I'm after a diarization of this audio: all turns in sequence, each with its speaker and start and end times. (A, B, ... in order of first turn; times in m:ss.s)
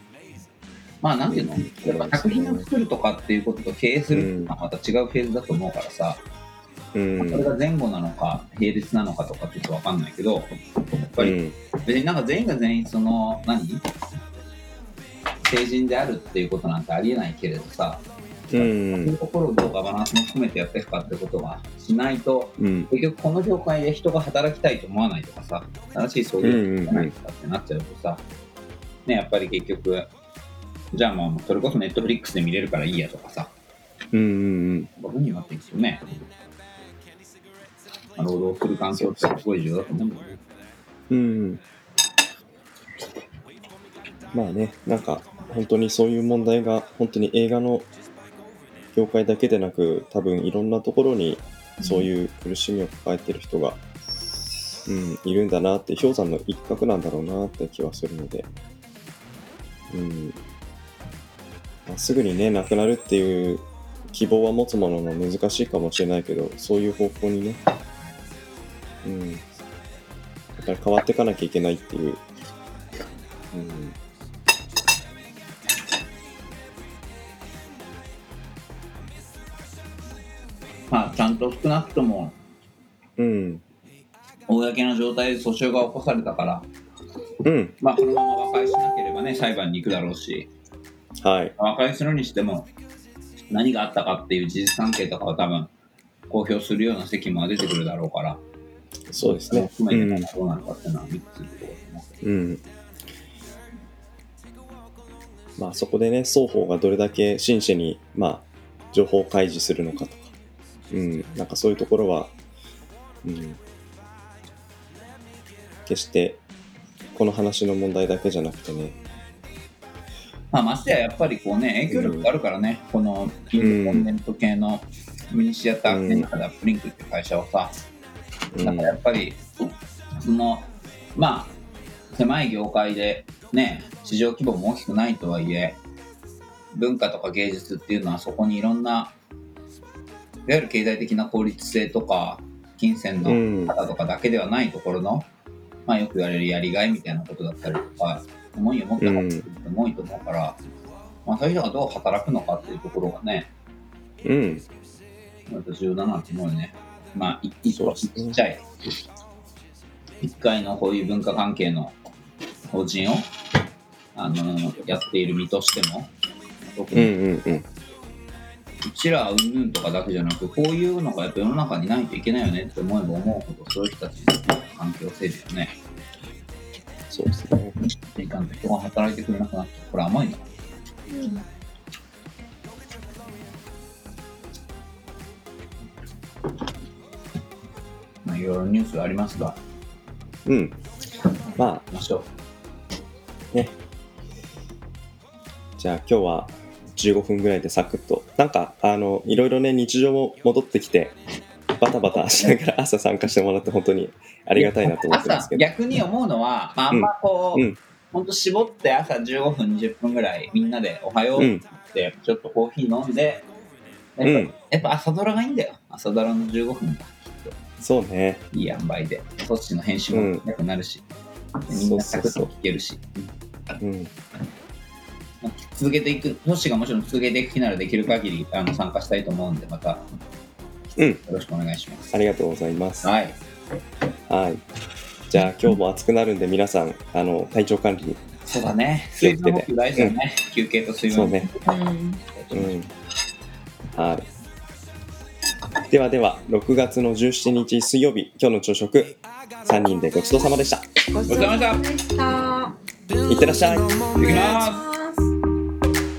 0:01.0-0:06.2 A
0:01.3-0:02.7 B
0:04.1-0:04.5 B
0:07.0-0:07.5 B
0:07.2-0:10.6 A
0:11.1-0:13.9 A
0:11.2-0:11.6 B
0:15.5-0:28.2 A
0:18.5-0:19.2 B
0:22.6-0:22.9 B
0:26.4-0:27.1 B
0:29.1-0:30.1 A
0:30.9-0:33.5 A
0:34.1-0:34.9 B
0:35.0-0:36.0 A
0:38.2-0:40.4 A
0:39.0-0:39.4 B
0:41.1-0:41.6 B
0:44.3-0:47.9 B
0:49.0-0:53.8 B
0:51.8-0:52.1 C
0:54.9-0:58.5 B
0:59.9-1:00.4 B
1:01.9-1:07.6 B
1:09.0-1:09.4 B
1:10.6-1:12.2 B
1:13.5-1:14.0 B
1:20.9-1:22.4 A
1:23.2-1:23.6 B
1:24.5-1:26.7 A
1:27.4-1:27.8 B
1:27.8-1:30.5 A
1:31.2-1:31.5 B
1:31.6-1:32.7 A
1:33.5-1:35.7 A
1:36.3-1:38.4 A
1:39.1-1:40.3 B
1:39.2-1:42.1 A
1:42.2-1:42.6 B
1:45.6-1:50.3 B
1:50.9-1:52.3 B
1:53.2-1:53.6 B
1:55.9-1:56.4 B
1:57.1-1:59.0 B
2:00.5-2:07.7 A
2:01.9-2:02.3 B
2:03.6-2:04.1 B
2:05.9-2:06.3 B
2:08.5-2:09.0 B
2:08.6-2:09.4 A
2:10.2-2:11.5 A
2:12.1-2:15.8 A
2:16.7-2:19.1 A
2:20.5-2:25.3 A
2:23.2-2:23.7 B
2:25.9-2:30.6 A
2:29.0-2:29.5 B
2:31.2-2:33.5 A
2:34.2-2:34.7 B
2:35.5-2:38.6 A
2:37.8-2:38.3 B
2:40.2-2:42.0 A
2:42.7-2:43.3 A
2:44.2-2:47.1 A
2:46.9-2:47.6 B
2:48.8-2:55.8 A
2:57.1-2:57.8 B
2:58.1-3:00.5 A
3:01.1-3:01.4 C
3:08.2-3:09.6 A
3:10.5-3:10.8 B
3:11.6-3:11.8 B
3:11.8-3:12.3 A
3:15.8-3:21.2 B
3:21.8-3:25.6 B
3:22.2-3:22.6 A
3:24.6-3:33.5 A
3:26.9-3:27.8 B
3:31.4-3:31.6 B
3:34.2-3:37.6 A
3:34.2-3:34.5 B
3:37.8-3:38.4 B
3:38.5-3:41.1 A
3:40.1-3:40.4 B
3:41.7-3:43.3 A
3:41.7-3:42.5 B
3:43.8-3:44.1 B
3:45.4-3:50.1 A
3:51.0-3:51.2 B
3:51.3-3:52.1 A
3:52.1-3:53.1 B
3:53.0-3:53.4 A
3:54.3-3:54.6 B
3:55.3-3:58.2 B
3:58.4-4:01.5 A
3:59.2-4:00.2 B
4:01.1-4:01.5 B
4:01.4-4:02.2 C
4:02.4-4:02.8 A
4:02.5-4:02.9 B
4:04.0-4:04.3 B
4:05.9-4:10.9 B
4:11.1-4:12.8 C
4:11.3-4:11.9 A
4:13.3-4:14.2 B
4:14.2-4:14.8 A
4:14.2-4:15.3 C